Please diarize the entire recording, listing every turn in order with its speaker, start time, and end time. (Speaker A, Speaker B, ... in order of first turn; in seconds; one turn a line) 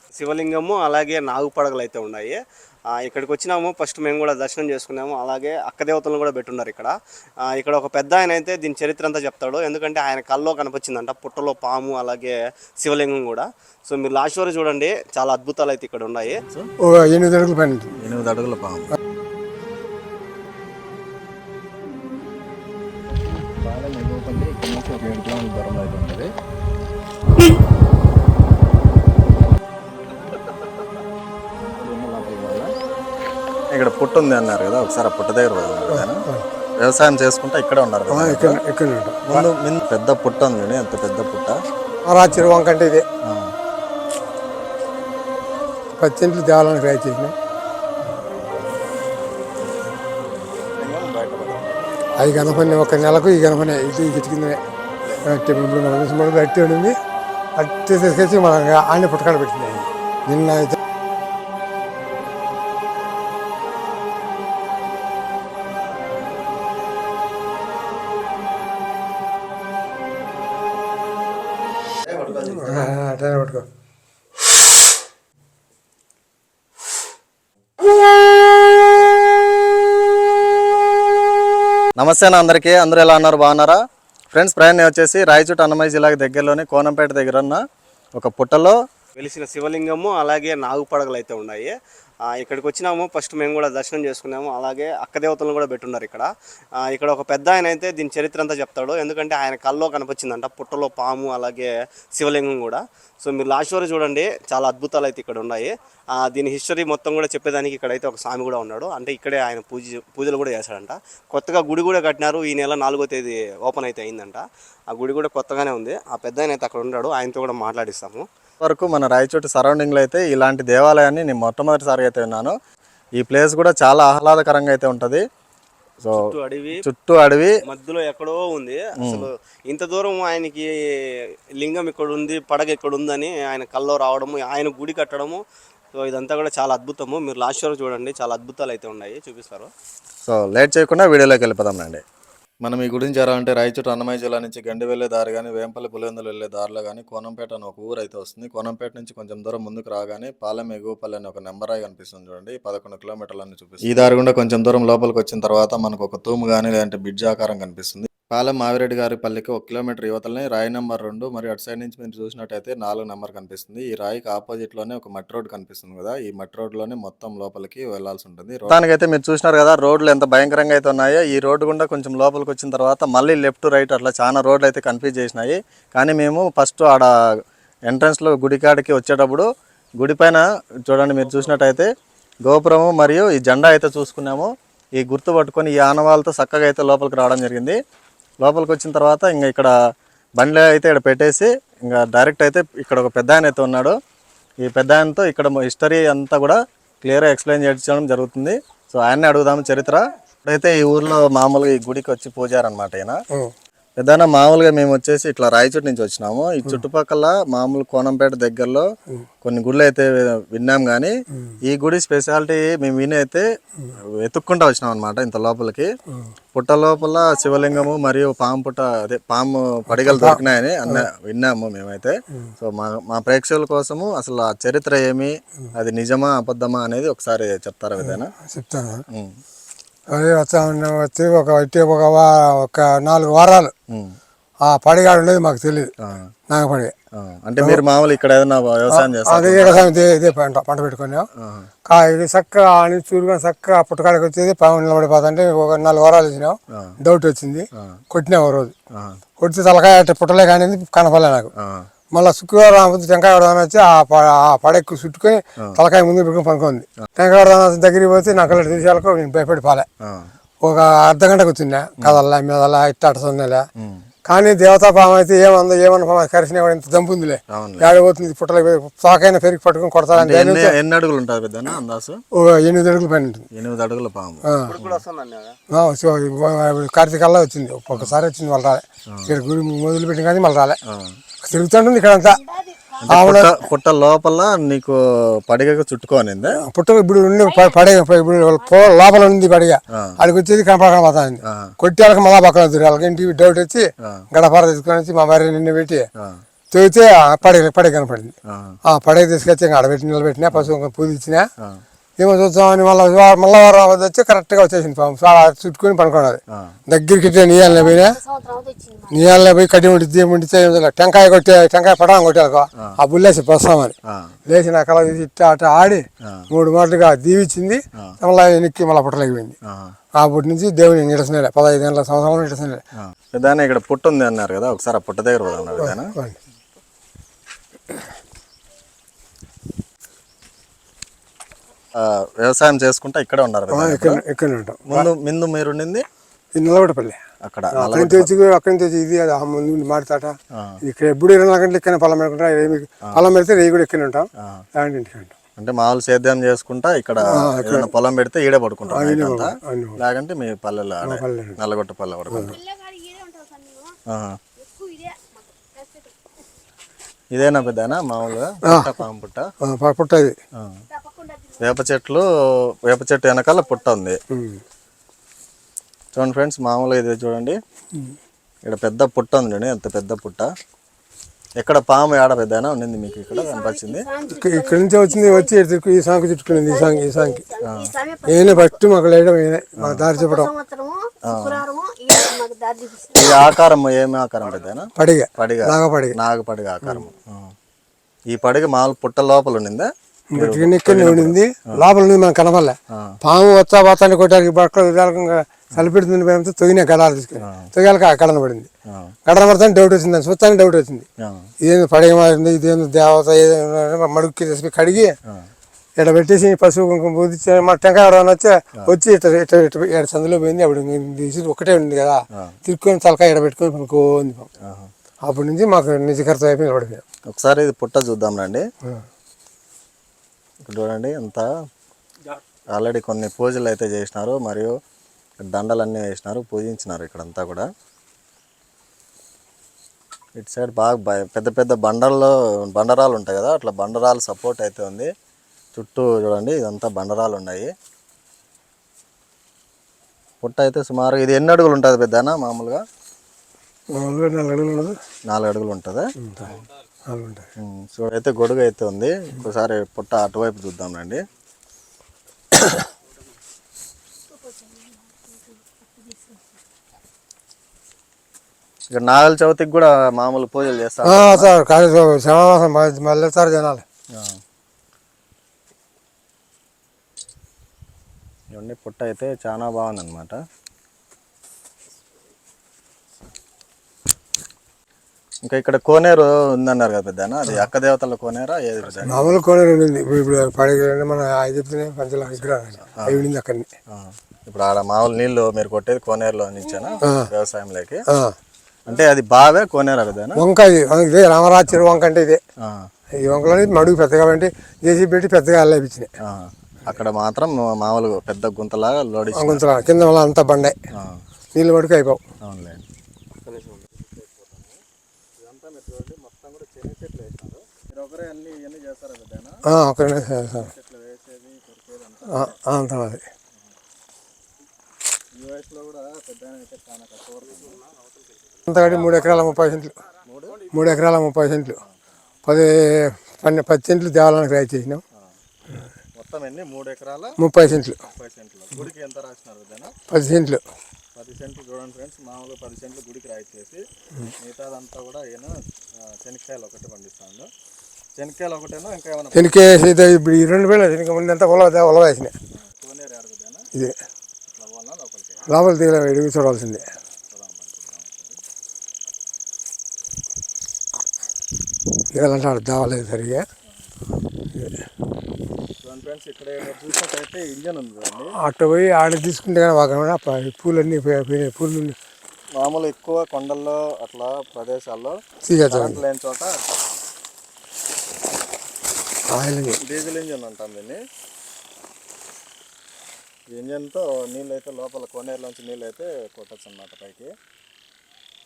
Speaker A: 0.2-2.4
Speaker A: 3.0-6.9
Speaker A: 7.5-16.4
Speaker B: 16.3-16.7
Speaker C: 16.8-17.9
Speaker B: 18.0-18.9
Speaker B: 23.2-26.3
Speaker B: 31.6-32.7
Speaker B: 33.7-36.2
Speaker C: 35.9-36.4
Speaker B: 36.8-38.6
Speaker C: 38.1-39.5
Speaker B: 39.3-41.5
Speaker C: 42.1-43.0
Speaker C: 46.0-47.3
Speaker B: 48.4-48.8
Speaker B: 50.7-53.8
Speaker C: 52.2-54.6
Speaker B: 54.8-55.2
Speaker C: 55.3-56.9
Speaker C: 57.6-60.7
Speaker B: 72.1-72.9
Speaker C: 72.3-73.6
Speaker B: 82.0-83.8
Speaker B: 84.3-87.6
Speaker B: 88.2-88.8
Speaker A: 89.2-91.7
Speaker A: 92.3-96.3
Speaker A: 96.8-118.2
Speaker B: 118.6-122.5
Speaker B: 123.2-125.2
Speaker A: 126.1-126.8
Speaker B: 126.8-127.5
Speaker A: 127.7-130.7
Speaker B: 129.0-129.3
Speaker A: 131.6-135.4
Speaker A: 135.9-139.7
Speaker B: 140.2-142.0
Speaker B: 142.6-177.1
Speaker B: 177.9-179.5
Speaker B: 180.0-181.9
Speaker B: 182.4-187.8
Speaker B: 188.4-189.7
Speaker B: 190.4-193.9
Speaker B: 194.6-203.2
Speaker B: 204.0-208.8
Speaker B: 209.4-211.1
Speaker B: 211.7-213.4
Speaker B: 214.2-215.9
Speaker B: 216.5-228.3
Speaker C: 219.9-221.0
Speaker C: 228.0-229.0
Speaker C: 230.1-233.7
Speaker B: 233.9-234.2
Speaker C: 234.6-235.9
Speaker C: 236.5-236.9
Speaker B: 237.1-239.9
Speaker C: 238.9-241.3
Speaker B: 241.4-241.7
Speaker C: 241.8-248.7
Speaker C: 249.4-251.5
Speaker B: 251.6-251.9
Speaker C: 252.1-259.9
Speaker C: 260.6-263.6
Speaker B: 263.8-264.0
Speaker C: 264.3-270.7
Speaker B: 267.5-267.9
Speaker B: 270.1-272.2
Speaker C: 272.3-273.5
Speaker B: 273.5-275.0
Speaker C: 274.5-274.8
Speaker A: 274.6-275.6
Speaker C: 275.7-280.8
Speaker C: 281.4-282.4
Speaker D: 282.3-283.1
Speaker B: 283.0-286.6
Speaker C: 283.1-283.5
Speaker C: 286.5-296.1
Speaker D: 287.4-287.9
Speaker D: 288.6-288.9
Speaker B: 291.5-291.7
Speaker C: 296.7-298.3
Speaker B: 298.5-298.8
Speaker C: 298.9-301.5
Speaker C: 302.2-308.2
Speaker D: 307.6-309.2
Speaker C: 309.1-313.9
Speaker B: 314.1-314.4
Speaker C: 314.5-319.6
Speaker B: 319.7-319.9
Speaker C: 320.2-322.8
Speaker B: 323.3-326.1
Speaker C: 325.8-326.4
Speaker B: 331.9-334.2
Speaker C: 333.7-335.1
Speaker B: 334.9-336.0
Speaker C: 336.6-337.2
Speaker B: 337.4-338.3
Speaker C: 337.7-345.4
Speaker B: 345.6-352.6
Speaker C: 347.2-347.9
Speaker C: 348.9-350.0
Speaker C: 351.0-351.6
Speaker C: 352.3-352.6
Speaker D: 352.4-354.0
Speaker B: 354.1-354.4
Speaker D: 354.6-356.4
Speaker B: 357.3-359.4
Speaker C: 359.6-360.4
Speaker D: 360.9-361.7
Speaker B: 361.6-362.2
Speaker B: 362.9-364.2
Speaker C: 364.3-364.6
Speaker B: 366.1-367.6
Speaker B: 368.7-370.5
Speaker B: 371.6-374.0
Speaker D: 373.1-375.5
Speaker C: 374.3-377.4
Speaker D: 376.6-378.8
Speaker B: 377.6-377.9
Speaker C: 378.3-380.5
Speaker B: 379.8-380.1
Speaker D: 380.2-383.5
Speaker B: 381.3-381.6
Speaker B: 383.1-387.5
Speaker C: 384.9-386.2
Speaker B: 388.3-391.8
Speaker C: 390.3-398.7
Speaker B: 392.9-393.1
Speaker B: 397.4-397.7
Speaker C: 399.2-401.1
Speaker B: 401.2-401.5
Speaker C: 401.6-405.1
Speaker C: 406.0-414.5
Speaker B: 414.6-414.9
Speaker C: 415.2-417.0
Speaker B: 417.3-418.6
Speaker B: 420.7-421.4
Speaker B: 422.7-424.7
Speaker B: 425.4-427.7
Speaker B: 430.4-435.1
Speaker B: 435.7-437.7
Speaker B: 440.4-442.8
Speaker C: 443.9-445.0
Speaker B: 445.3-446.5
Speaker C: 446.2-446.5
Speaker C: 447.1-447.4
Speaker B: 447.6-451.2
Speaker C: 452.5-452.8
Speaker D: 454.3-456.5
Speaker B: 458.9-461.5
Speaker C: 461.0-463.8
Speaker B: 468.5-470.4
Speaker B: 475.4-479.3
Speaker C: 479.0-483.7
Speaker B: 482.9-483.2
Speaker B: 483.9-488.0
Speaker C: 488.1-488.3
Speaker B: 488.9-490.4
Speaker C: 490.4-492.4
Speaker B: 492.6-492.9
Speaker C: 493.2-496.1
Speaker B: 496.2-499.7
Speaker C: 499.3-500.8
Speaker B: 500.9-501.2
Speaker C: 501.5-502.2
Speaker B: 502.4-502.8
Speaker A: 503.4-503.8
Speaker B: 503.8-504.8
Speaker B: 505.4-509.6
Speaker C: 509.7-510.7
Speaker B: 510.5-512.6
Speaker C: 512.3-513.2
Speaker B: 515.3-517.8
Speaker A: 517.5-518.6
Speaker C: 518.7-520.0
Speaker B: 518.8-519.6
Speaker B: 520.2-520.6
Speaker C: 520.7-521.8
Speaker B: 521.8-522.2
Speaker C: 522.4-525.0
Speaker B: 526.2-527.3
Speaker C: 527.4-528.0
Speaker B: 528.0-529.9
Speaker C: 530.1-530.6
Speaker B: 531.1-533.8
Speaker B: 534.4-537.5
Speaker B: 538.2-539.6
Speaker C: 539.3-542.3
Speaker B: 542.5-543.6
Speaker B: 544.5-545.5
Speaker C: 545.5-546.9
Speaker B: 546.8-548.4
Speaker C: 552.1-553.4
Speaker C: 554.5-554.8
Speaker B: 555.8-558.3
Speaker C: 558.4-562.0
Speaker B: 562.6-566.5
Speaker C: 565.5-566.0
Speaker C: 569.4-569.8
Speaker B: 569.8-571.0
Speaker B: 573.5-577.3